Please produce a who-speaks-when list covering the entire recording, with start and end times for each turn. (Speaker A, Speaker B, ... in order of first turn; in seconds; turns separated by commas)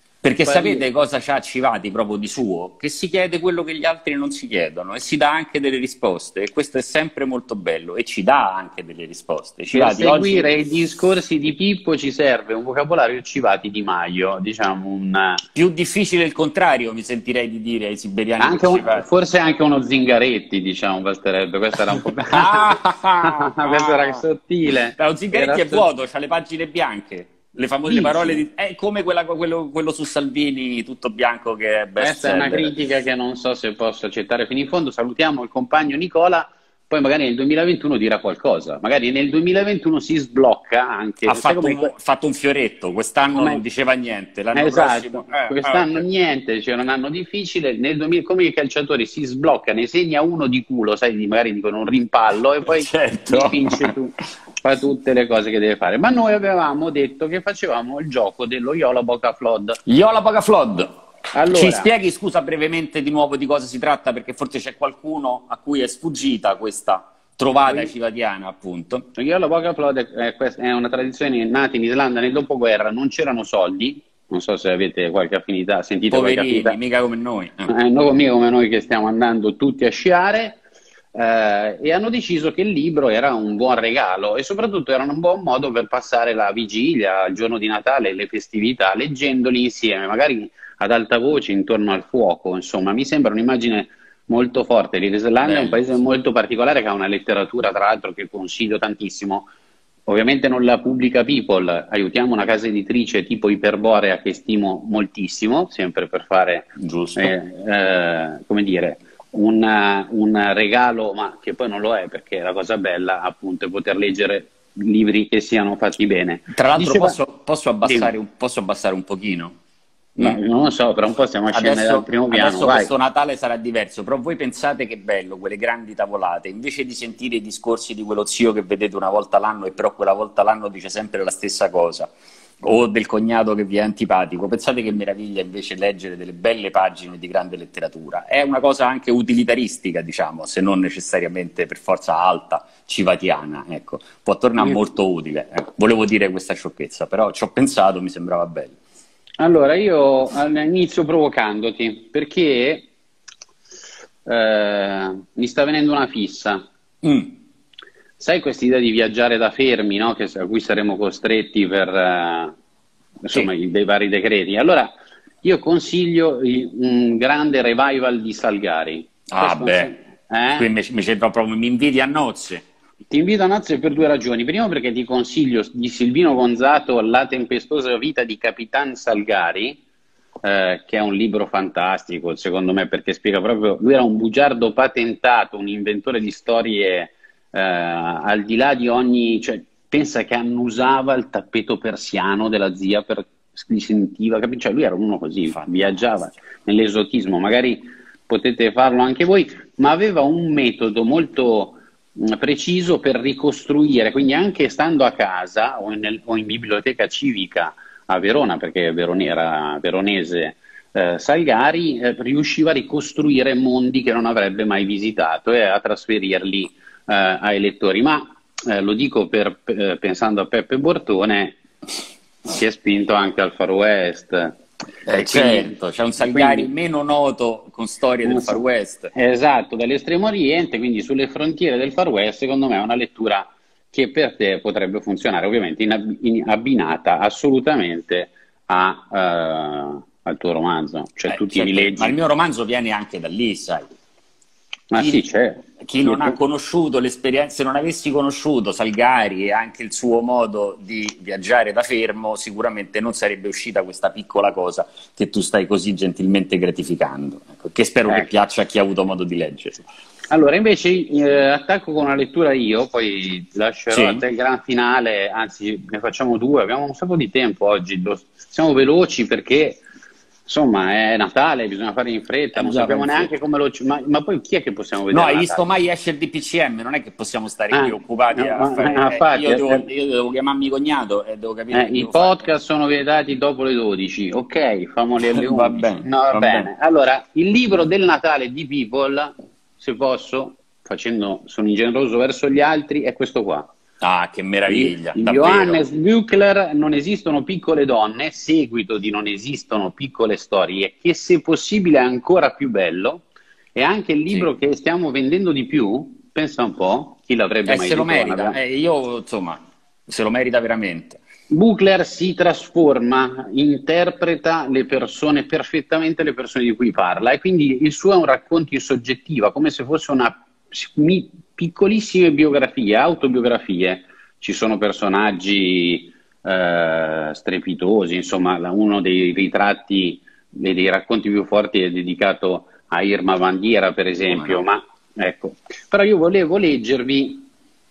Speaker A: 0.2-10.5, Speaker B: 0.4-0.8, Speaker B: 9.7-15.4, Speaker A: 15.6-19.1, Speaker B: 18.4-25.9, Speaker A: 22.3-32.7, Speaker B: 27.9-28.4, Speaker B: 32.0-41.9, Speaker A: 41.2-46.0, Speaker B: 43.4-43.6, Speaker B: 44.5-59.8, Speaker A: 52.6-53.9, Speaker A: 59.9-61.0, Speaker B: 61.3-61.9, Speaker A: 61.5-69.1, Speaker B: 67.7-67.9, Speaker B: 69.2-76.8, Speaker A: 76.1-77.7, Speaker B: 77.7-80.6, Speaker B: 81.2-99.5, Speaker A: 95.4-95.8, Speaker B: 100.1-117.2, Speaker A: 106.8-107.3, Speaker A: 116.5-119.6, Speaker B: 117.8-118.1, Speaker B: 120.2-122.9, Speaker A: 121.5-132.1, Speaker A: 132.6-148.8, Speaker B: 149.4-152.9, Speaker B: 154.3-156.7, Speaker A: 157.0-157.3, Speaker B: 158.2-162.6, Speaker B: 163.2-170.7, Speaker A: 169.3-169.9, Speaker A: 170.6-172.7, Speaker B: 173.1-179.8, Speaker B: 180.4-221.6, Speaker B: 222.4-226.7, Speaker A: 225.1-229.1, Speaker B: 228.2-228.6, Speaker B: 229.2-242.2, Speaker A: 241.3-243.9, Speaker B: 244.9-246.4, Speaker A: 245.0-245.2, Speaker A: 245.8-259.8, Speaker B: 260.3-269.8, Speaker A: 263.9-264.2, Speaker B: 270.5-275.6, Speaker A: 272.6-273.3, Speaker A: 275.1-282.5, Speaker B: 277.7-279.9, Speaker B: 281.7-293.7, Speaker A: 285.3-286.7, Speaker A: 294.0-295.8, Speaker B: 294.7-308.6, Speaker A: 307.7-311.2, Speaker B: 311.5-337.5, Speaker A: 334.3-334.6